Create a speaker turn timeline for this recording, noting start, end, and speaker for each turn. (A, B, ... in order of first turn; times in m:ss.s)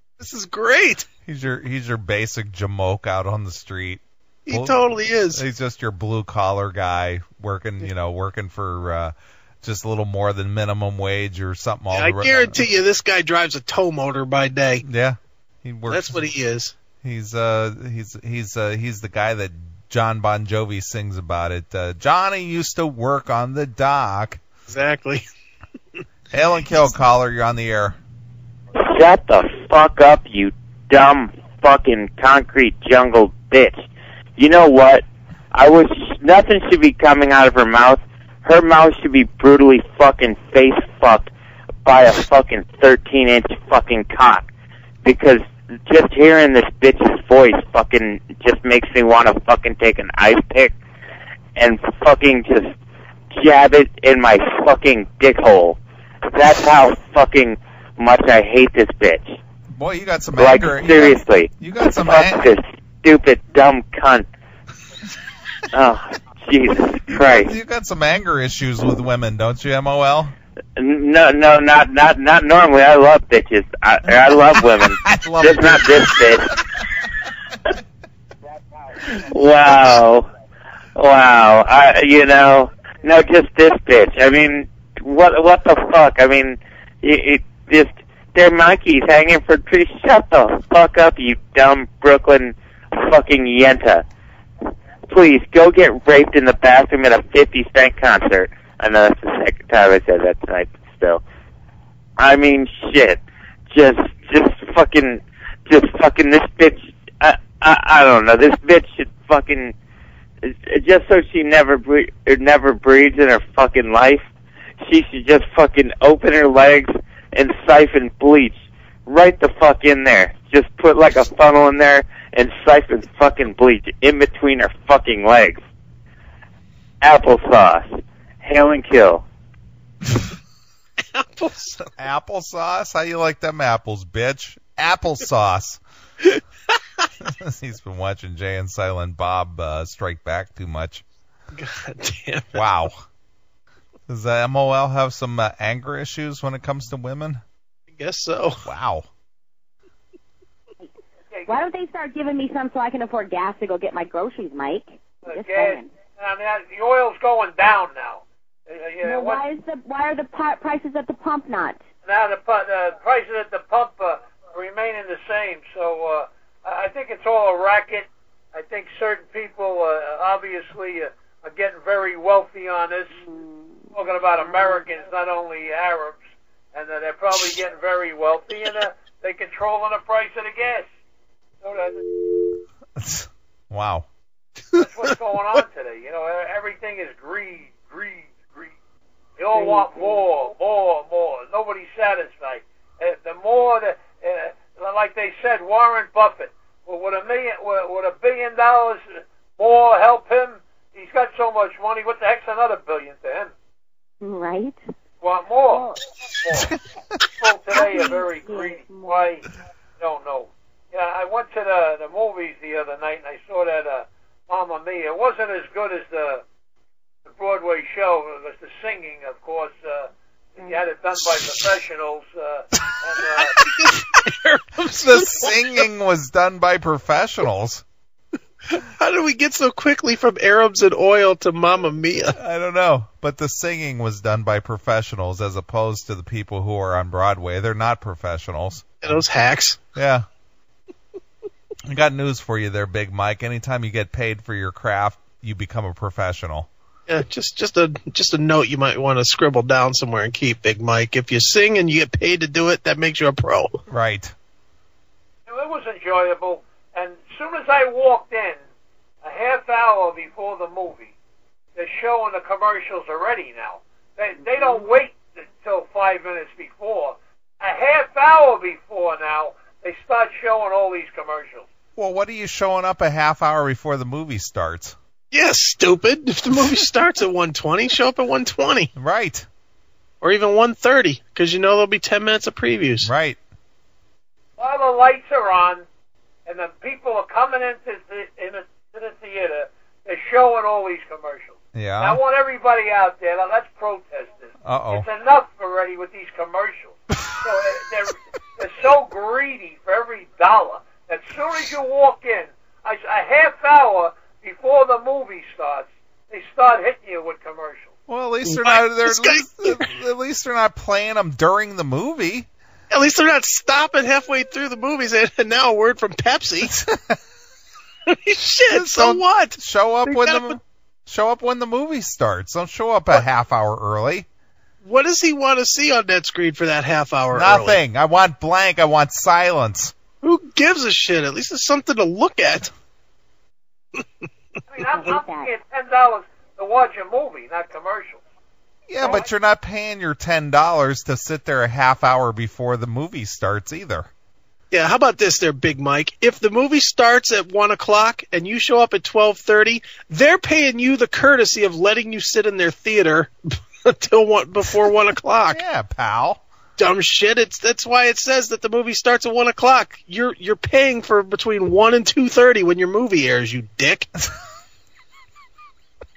0:00.2-0:01.1 A
0:01.2-0:04.8 B
0:04.4-0:05.4 A
0:05.3-0:12.6 B
0:11.9-0:14.8 A
0:14.8-0:16.2 B
0:15.9-0:16.7 A
0:17.0-0:24.4 B
0:24.7-0:25.2 A
0:26.3-0:28.0 B
0:28.8-0:33.8 C
0:34.4-0:41.3 C
0:41.8-0:44.5 C
0:45.0-0:50.7 C
0:51.6-0:52.7 C
0:53.3-0:59.4 C
0:59.7-1:02.5 B
1:00.4-1:04.3 C
1:05.7-1:07.5 C
1:07.1-1:10.3 B
1:10.8-1:16.5 C
1:14.9-1:16.4 B
1:19.1-1:20.3 C
1:21.0-1:34.0 C
1:35.1-1:41.2 C
1:42.2-1:49.7 C
1:50.4-1:54.2 C
1:54.8-2:05.6 C
2:07.0-2:09.2 C
2:11.1-2:11.9 A
2:12.0-2:15.8 B
2:17.2-2:21.0 B
2:21.5-2:22.6 A
2:22.5-2:23.0 B
2:24.1-2:27.4 B
2:27.9-2:28.6 A
2:28.6-2:29.1 B
2:31.3-2:31.6 D
2:31.5-2:35.9 E
2:35.2-2:39.4 D
2:39.0-2:41.8 E
2:42.0-2:53.2 D
2:53.2-2:53.8 E
2:53.9-2:56.2 D
2:54.4-2:54.8 E
2:56.7-3:00.9 D
3:01.6-3:02.0 D
3:03.0-3:04.1 B
3:04.8-3:08.7 D
3:09.4-3:23.5 D
3:09.5-3:10.2 E
3:24.2-3:24.8 E
3:25.2-3:25.8 D
3:25.7-3:26.0 E
3:26.4-3:26.7 D
3:27.4-3:29.5 D
3:27.7-3:29.3 E
3:30.0-3:36.4 D
3:37.2-3:43.6 D
3:43.5-3:45.5 A
3:45.0-3:47.8 B
3:48.7-3:52.4 A
3:52.4-3:59.2 B
3:59.0-3:59.8 A
4:00.0-4:00.2 B
4:01.9-4:06.7 B
4:07.1-4:13.8 A
4:13.9-4:14.3 B
4:15.5-4:18.6 D
4:19.2-4:21.1 D
4:21.8-4:31.7 D
4:32.0-4:35.0 B
4:35.3-4:38.9 A
4:39.0-4:39.4 B
4:40.2-4:43.1 A
4:43.0-4:43.4 B
4:44.6-4:45.8 D
4:46.4-5:07.9 D
4:51.7-4:52.2 B
4:54.6-4:55.1 B
5:08.1-5:12.5 B
5:08.4-5:09.8 A
5:12.9-5:16.7 A
5:16.6-5:17.2 B
5:18.1-5:20.6 A
5:18.7-5:24.2 B
5:24.8-5:27.8 A
5:27.3-5:29.9 B
5:30.2-5:32.7 A
5:34.7-5:38.2 D
5:34.9-5:35.5 E
5:38.9-5:44.1 B
5:44.7-5:53.3 A
5:53.8-5:55.6 A
5:55.5-5:56.4 B
5:56.8-6:04.1 A